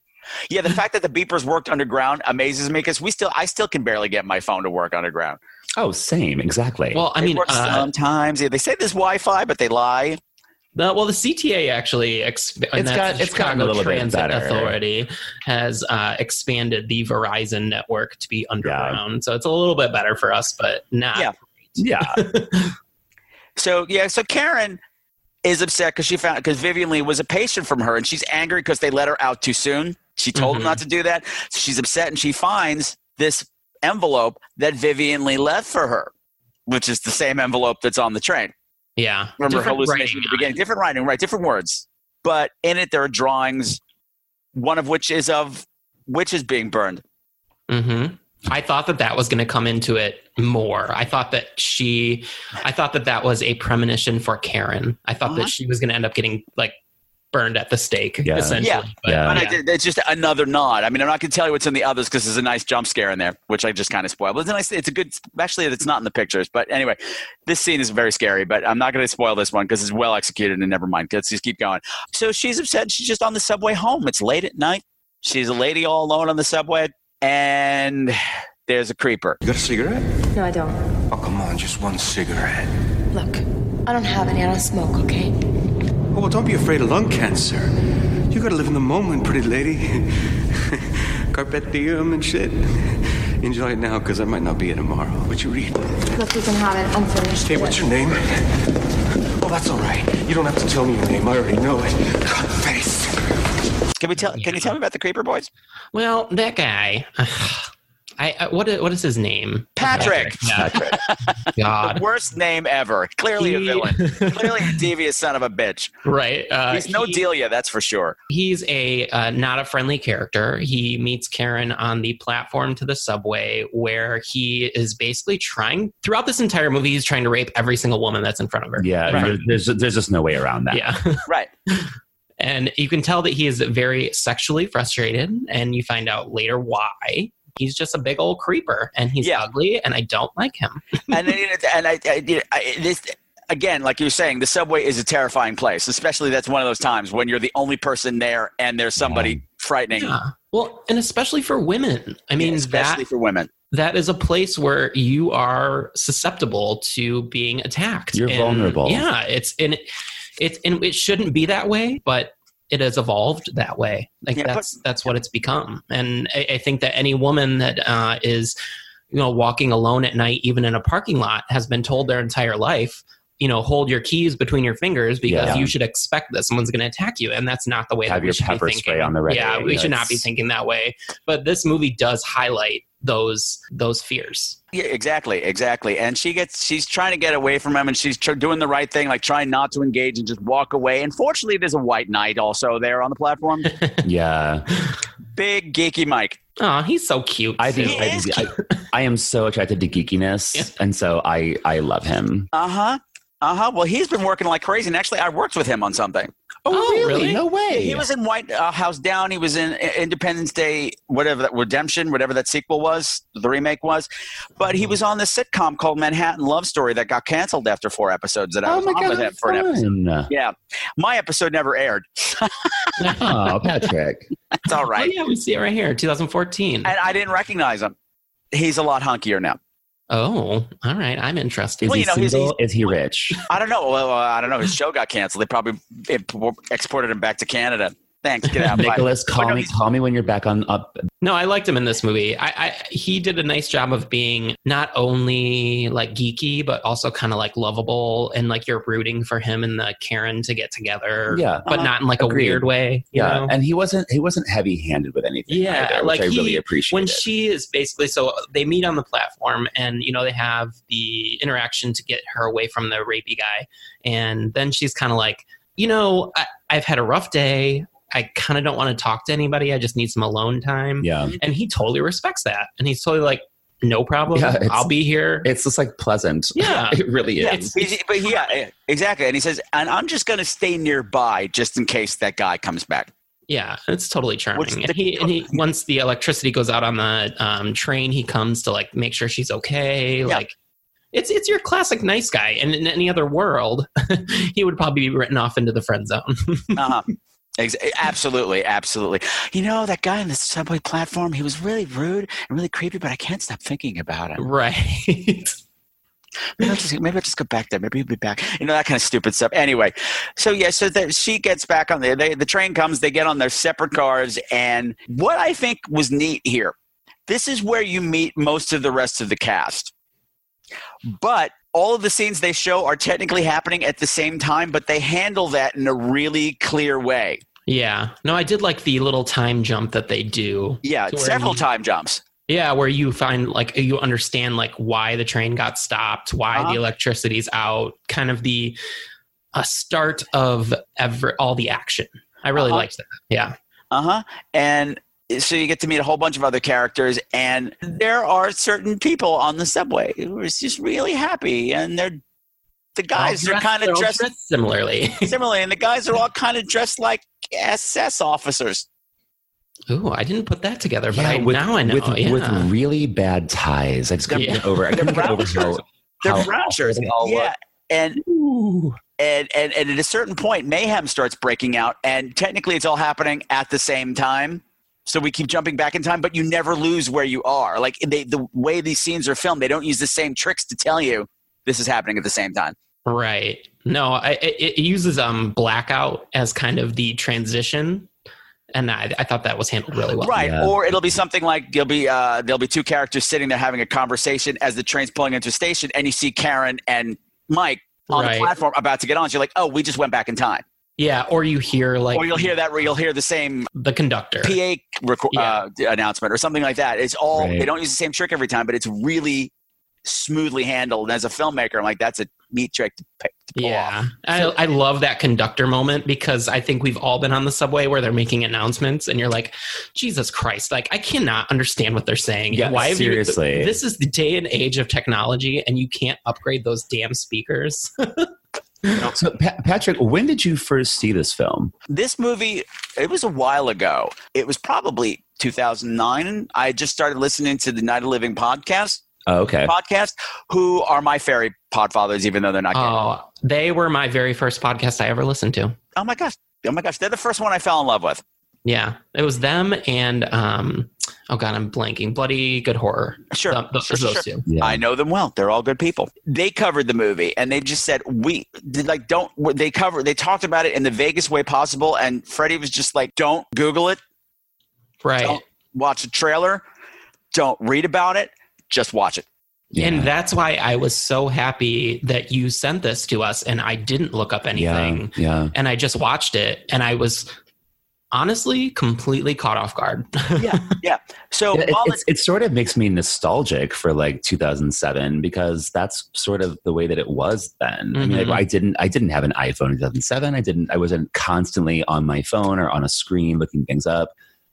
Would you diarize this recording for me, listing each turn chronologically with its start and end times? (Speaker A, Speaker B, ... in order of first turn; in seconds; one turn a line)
Speaker A: 0.5-5.4
Speaker B: 5.8-7.0
Speaker C: 6.9-7.9
Speaker A: 7.2-10.2
Speaker C: 10.8-22.7
Speaker B: 12.7-14.8
Speaker B: 18.6-19.0
Speaker B: 21.8-22.2
Speaker A: 23.6-24.8
Speaker A: 25.4-36.1
Speaker C: 30.3-30.8
Speaker A: 36.7-38.5
Speaker C: 39.0-40.5
Speaker A: 39.4-43.8
Speaker A: 44.5-47.0
Speaker C: 47.7-56.7
Speaker A: 55.2-55.5
Speaker C: 57.3-59.6
Speaker B: 58.2-59.5
Speaker A: 58.6-79.4
Speaker D: 79.4-80.0
Speaker E: 80.3-80.8
Speaker D: 81.1-82.7
Speaker E: 83.1-85.3
Speaker D: 86.1-87.7
Speaker D: 88.3-90.0
Speaker D: 91.3-92.6
Speaker D: 93.4-95.8
Speaker E: 96.1-97.9
Speaker D: 97.4-98.2
Speaker D: 99.4-103.2
Speaker A: 104.0-105.5
Speaker C: 104.3-104.8
Speaker C: 105.9-110.8
Speaker A: 109.8-115.9
Speaker B: 109.9-111.0
Speaker C: 111.5-112.0
Speaker C: 113.4-114.8
Speaker C: 116.0-117.2
Speaker A: 116.7-118.2
Speaker C: 118.3-129.5
Speaker B: 128.8-130.9
Speaker C: 130.7-141.1
Speaker A: 141.1-150.1
Speaker B: 149.0-149.4
Speaker C: 149.9-153.0
Speaker A: 152.4-153.5
Speaker C: 153.7-159.8
Speaker B: 158.1-159.1
Speaker C: 160.4-168.6
Speaker A: 164.3-164.8
Speaker C: 169.1-184.6
Speaker B: 175.2-175.7
Speaker B: 178.1-180.3
Speaker A: 184.7-193.7
Speaker C: 193.7-194.0
Speaker B: 194.0-194.6
Speaker A: 195.3-196.4
Speaker C: 196.6-198.5
Speaker B: 197.6-202.5
Speaker A: 197.8-198.3
Speaker A: 202.5-206.3
Speaker B: 206.6-208.1
Speaker C: 206.7-207.4
Speaker A: 207.7-222.9
Speaker B: 218.6-220.3
Speaker C: 223.0-223.5
Speaker B: 223.2-224.3
Speaker A: 224.6-225.1
Speaker C: 224.9-226.9
Speaker A: 226.8-227.9
Speaker A: 228.5-229.6
Speaker C: 230.1-232.1
Speaker B: 231.8-233.4
Speaker A: 231.8-232.5
Speaker A: 233.4-239.7
Speaker B: 238.7-241.0
Speaker C: 241.2-253.5
Speaker B: 251.3-257.3
Speaker C: 255.5-275.5
Speaker B: 271.0-271.4
Speaker B: 274.3-277.7
Speaker C: 276.6-277.9
Speaker A: 277.4-283.1
Speaker C: 283.5-290.5
Speaker A: 284.6-285.6
Speaker C: 291.1-296.9
Speaker A: 296.8-297.1
Speaker A: 297.6-304.4
Speaker C: 304.4-305.6
Speaker A: 306.6-316.7
Speaker A: 317.3-319.9
Speaker A: 321.1-327.4
Speaker C: 327.7-331.6
Speaker A: 330.8-332.2
Speaker C: 332.5-338.8
Speaker C: 339.5-343.5
Speaker A: 342.5-342.9
Speaker A: 343.9-352.2
Speaker A: 352.9-354.2
Speaker C: 353.1-355.3
Speaker A: 355.2-358.9
Speaker C: 359.9-362.7
Speaker B: 361.1-367.5
Speaker C: 364.3-365.2
Speaker A: 364.9-368.2
Speaker B: 368.2-369.0
Speaker A: 369.2-382.7
Speaker C: 383.1-388.1
Speaker C: 388.7-390.5
Speaker A: 390.2-400.6
Speaker B: 390.4-390.7
Speaker C: 398.1-398.5
Speaker C: 401.0-402.5
Speaker A: 402.1-403.7
Speaker C: 403.7-404.6
Speaker A: 404.4-409.5
Speaker C: 405.3-405.6
Speaker B: 407.3-407.7
Speaker A: 410.0-414.5
Speaker C: 413.6-428.3
Speaker B: 422.5-423.8
Speaker B: 428.9-431.7
Speaker A: 431.9-439.0
Speaker B: 439.3-439.7
Speaker A: 439.6-442.9
Speaker C: 442.7-445.8
Speaker A: 445.9-448.2
Speaker C: 448.6-454.4
Speaker A: 453.3-464.0
Speaker B: 454.5-454.8
Speaker C: 465.0-465.4
Speaker A: 465.2-466.6
Speaker A: 467.3-469.2
Speaker B: 469.7-470.1
Speaker C: 469.8-477.3
Speaker B: 474.5-475.5
Speaker C: 478.1-480.6
Speaker A: 480.4-482.0
Speaker B: 481.5-494.1
Speaker C: 487.9-488.4